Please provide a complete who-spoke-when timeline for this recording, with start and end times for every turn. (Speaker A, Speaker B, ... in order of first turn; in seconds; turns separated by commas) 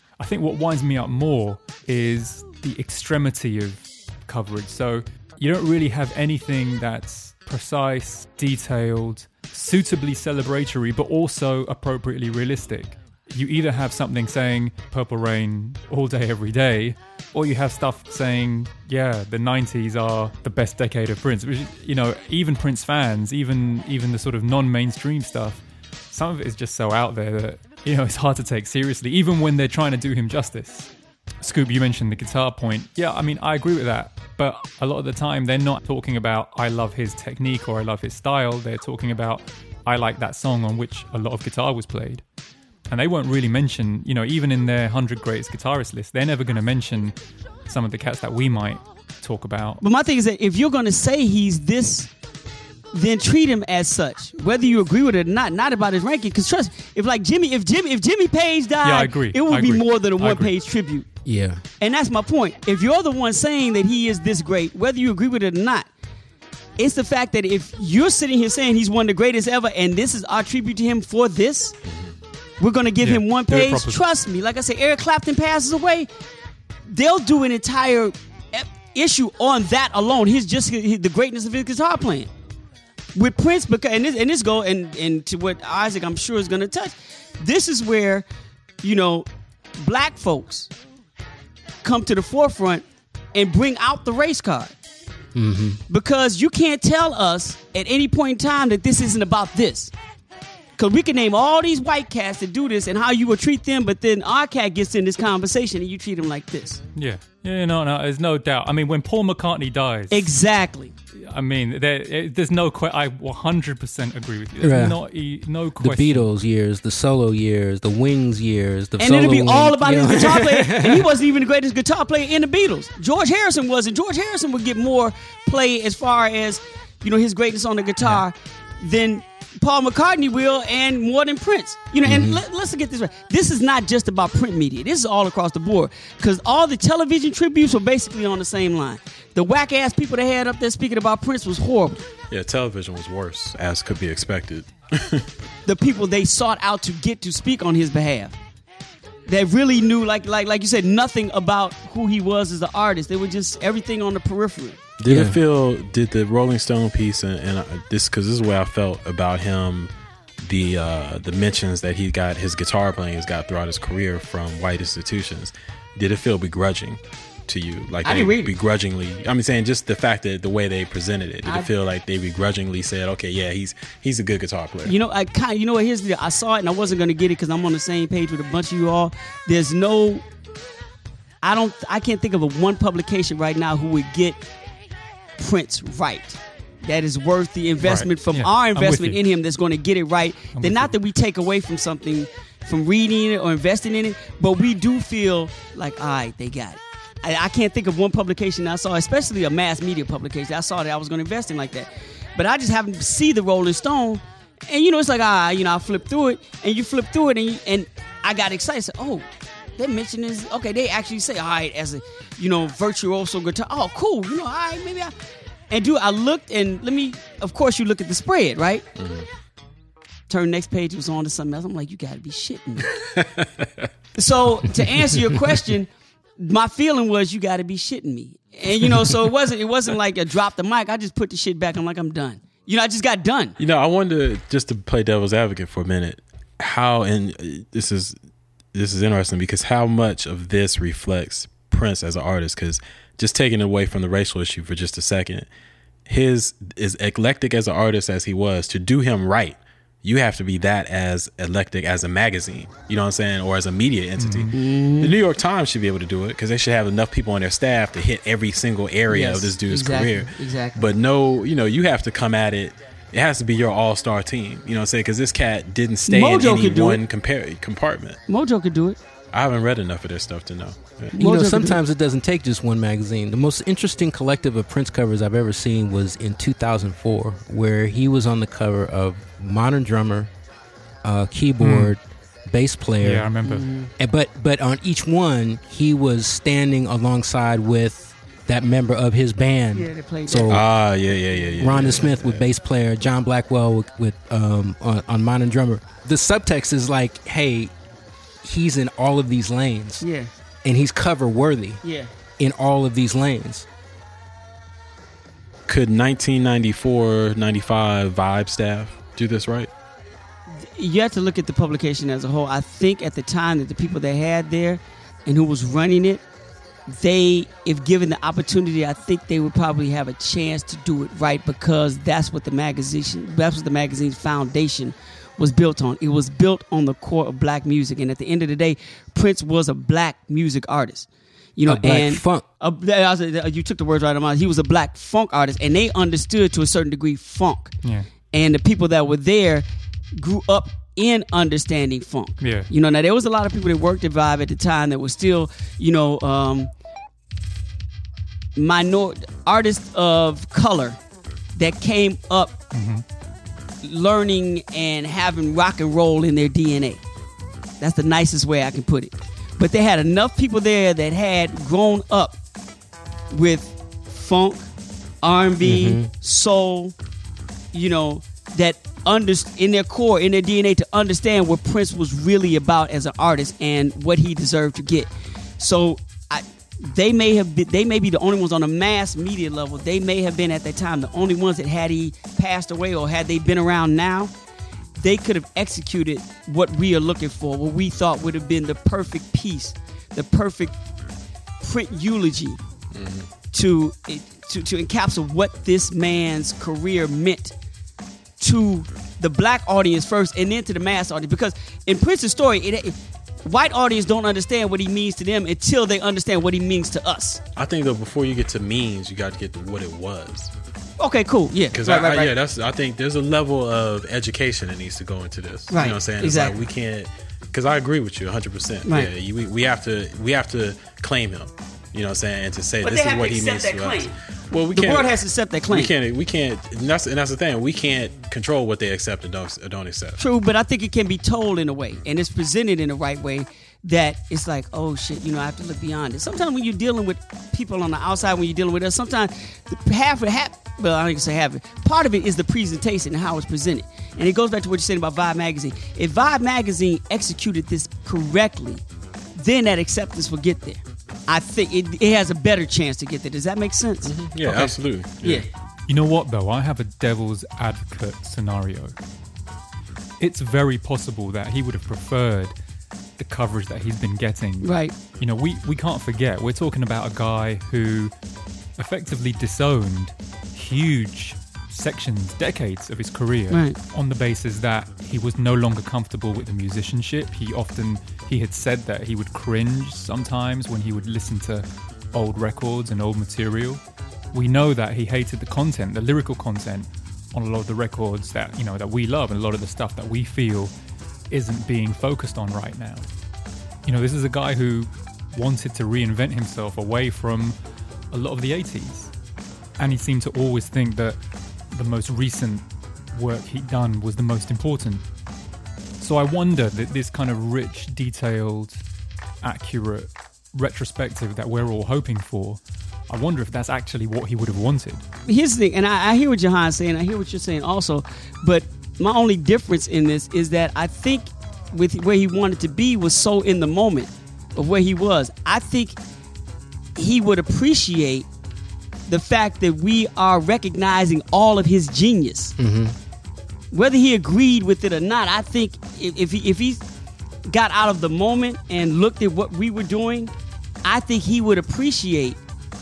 Speaker A: 0.2-30.9, Speaker A: 31.4-42.2, Speaker A: 42.9-47.1, Speaker A: 47.7-49.8, Speaker B: 49.8-52.1, Speaker B: 52.9-61.1, Speaker A: 58.8-60.5, Speaker C: 61.2-61.6, Speaker B: 61.8-65.9, Speaker B: 66.8-71.7, Speaker D: 71.9-72.1, Speaker B: 72.6-76.1, Speaker A: 73.0-74.0, Speaker B: 76.9-82.3, Speaker B: 83.1-88.2, Speaker B: 88.8-89.3, Speaker B: 89.8-90.7, Speaker B: 91.8-94.7, Speaker C: 95.3-95.8, Speaker B: 95.9-99.9, Speaker B: 100.8-106.8, Speaker A: 106.9-110.3, Speaker B: 110.1-110.9, Speaker A: 111.2-116.2, Speaker C: 114.6-115.0, Speaker C: 115.8-121.1, Speaker B: 119.0-142.0, Speaker C: 132.0-132.4, Speaker D: 142.3-145.3, Speaker B: 145.7-148.4, Speaker B: 149.3-154.8, Speaker D: 155.0-174.9, Speaker C: 155.1-155.4, Speaker B: 168.0-168.5, Speaker B: 174.8-180.2, Speaker B: 181.4-184.4, Speaker B: 185.4-209.2, Speaker A: 187.8-189.2, Speaker A: 190.5-190.9, Speaker B: 209.8-215.1, Speaker B: 215.7-218.8, Speaker D: 219.0-219.3, Speaker B: 220.3-222.9, Speaker D: 223.0-223.9, Speaker B: 224.2-233.6, Speaker D: 233.6-238.1, Speaker D: 238.7-245.5, Speaker D: 246.1-268.2, Speaker A: 254.2-254.6, Speaker B: 254.5-255.1, Speaker B: 259.1-260.8, Speaker B: 266.1-267.0, Speaker B: 268.3-269.0, Speaker D: 269.3-271.2, Speaker C: 271.1-280.3, Speaker B: 271.2-271.8, Speaker C: 281.0-283.3, Speaker A: 281.6-281.9, Speaker A: 283.0-283.7, Speaker B: 283.4-283.9, Speaker C: 284.0-290.6, Speaker B: 289.7-290.6, Speaker D: 290.5-292.4, Speaker C: 291.6-297.7, Speaker C: 298.4-300.0, Speaker B: 300.0-300.3, Speaker C: 300.6-301.8, Speaker B: 301.8-302.1, Speaker C: 302.4-303.7, Speaker D: 305.7-309.7, Speaker B: 310.6-316.2, Speaker B: 316.9-337.7, Speaker C: 331.7-332.4, Speaker B: 338.3-346.7, Speaker A: 342.4-342.7, Speaker B: 348.6-351.0, Speaker B: 351.5-352.6, Speaker A: 352.7-353.0, Speaker B: 353.8-357.0, Speaker B: 357.8-362.4, Speaker B: 363.3-364.7, Speaker B: 365.2-366.9, Speaker C: 365.6-366.1, Speaker B: 367.7-384.3, Speaker B: 385.0-390.8, Speaker B: 391.6-392.6, Speaker D: 392.9-393.3, Speaker B: 393.5-397.5, Speaker B: 398.4-407.4, Speaker D: 407.6-410.5, Speaker B: 411.0-412.3, Speaker D: 411.7-425.1, Speaker B: 415.7-416.5, Speaker B: 418.9-419.1, Speaker B: 422.8-424.1, Speaker B: 424.7-425.9, Speaker D: 425.7-430.2, Speaker B: 430.2-448.8, Speaker B: 449.4-454.1, Speaker D: 454.0-455.5, Speaker A: 454.4-454.7, Speaker A: 455.9-458.9, Speaker A: 460.2-462.5, Speaker A: 463.2-468.1, Speaker B: 464.6-464.9, Speaker A: 468.8-483.8, Speaker B: 473.5-473.8, Speaker A: 484.3-490.7, Speaker A: 491.3-493.0, Speaker A: 493.8-497.5, Speaker A: 498.1-499.1, Speaker A: 499.8-501.2, Speaker A: 501.7-505.0, Speaker A: 506.0-508.8, Speaker A: 509.4-515.0, Speaker B: 515.2-526.0, Speaker B: 527.0-528.3, Speaker B: 529.1-532.5, Speaker C: 532.6-533.0, Speaker B: 533.7-536.8, Speaker B: 537.5-540.3, Speaker B: 540.8-542.4